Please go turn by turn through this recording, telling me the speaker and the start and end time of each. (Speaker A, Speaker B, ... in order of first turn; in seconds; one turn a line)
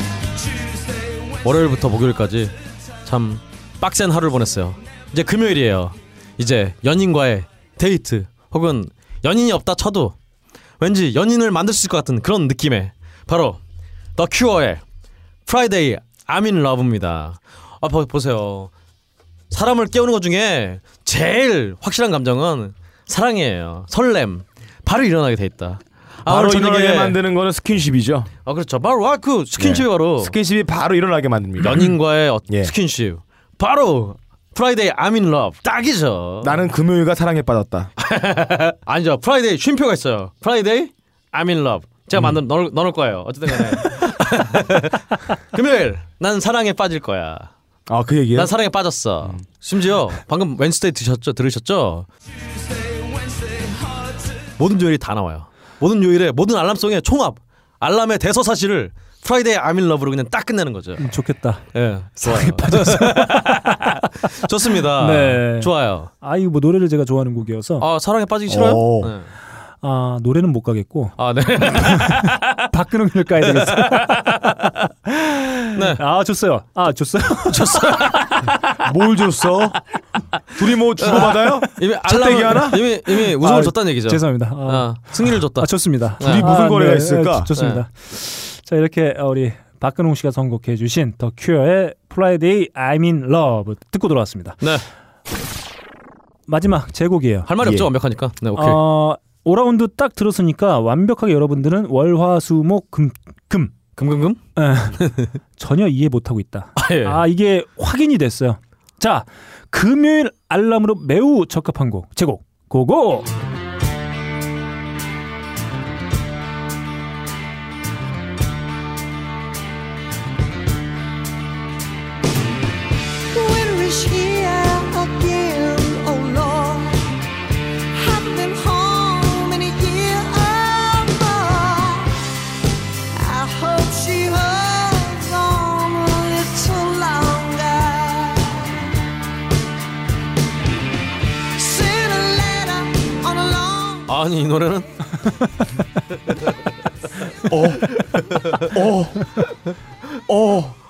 Speaker A: 0.3-1.6
Speaker B: 1.4-2.5
Speaker B: 3.0-10.1
Speaker B: 10.8-13.6
Speaker B: 14.2-14.8
Speaker B: 15.4-18.7
Speaker B: 19.5-27.2
Speaker C: 26.2-28.3
Speaker B: 28.4-30.3
Speaker C: 29.6-31.9
Speaker B: 31.6-36.6
Speaker C: 36.4-37.9
Speaker B: 38.0-47.5
Speaker C: 47.9-48.5
Speaker B: 48.3-52.1
Speaker A: 52.4-54.5
Speaker B: 54.6-61.1
Speaker D: 61.0-61.6
Speaker B: 61.7-66.1
Speaker D: 62.2-63.7
Speaker D: 65.0-67.8
Speaker B: 67.8-69.3
Speaker C: 68.5-69.1
Speaker D: 69.8-78.7
Speaker B: 71.2-72.5
Speaker B: 73.5-74.2
Speaker B: 75.7-76.0
Speaker B: 77.5-78.4
Speaker C: 78.8-79.8
Speaker C: 80.5-82.9
Speaker B: 81.0-86.5
Speaker D: 83.4-94.6
Speaker C: 86.2-87.5
Speaker B: 87.5-87.8
Speaker D: 96.5-97.5
Speaker B: 97.5-98.8
Speaker C: 97.6-97.9
Speaker D: 98.5-103.7
Speaker B: 104.0-104.4
Speaker D: 104.5-105.0
Speaker B: 104.9-105.3
Speaker D: 105.5-113.3
Speaker B: 106.8-107.2
Speaker E: 123.3-127.0
Speaker E: 127.9-132.2
Speaker E: 133.1-138.7
Speaker E: 141.6-144.1
Speaker B: 144.1-144.9
Speaker C: 147.4-149.5
Speaker C: 150.3-150.8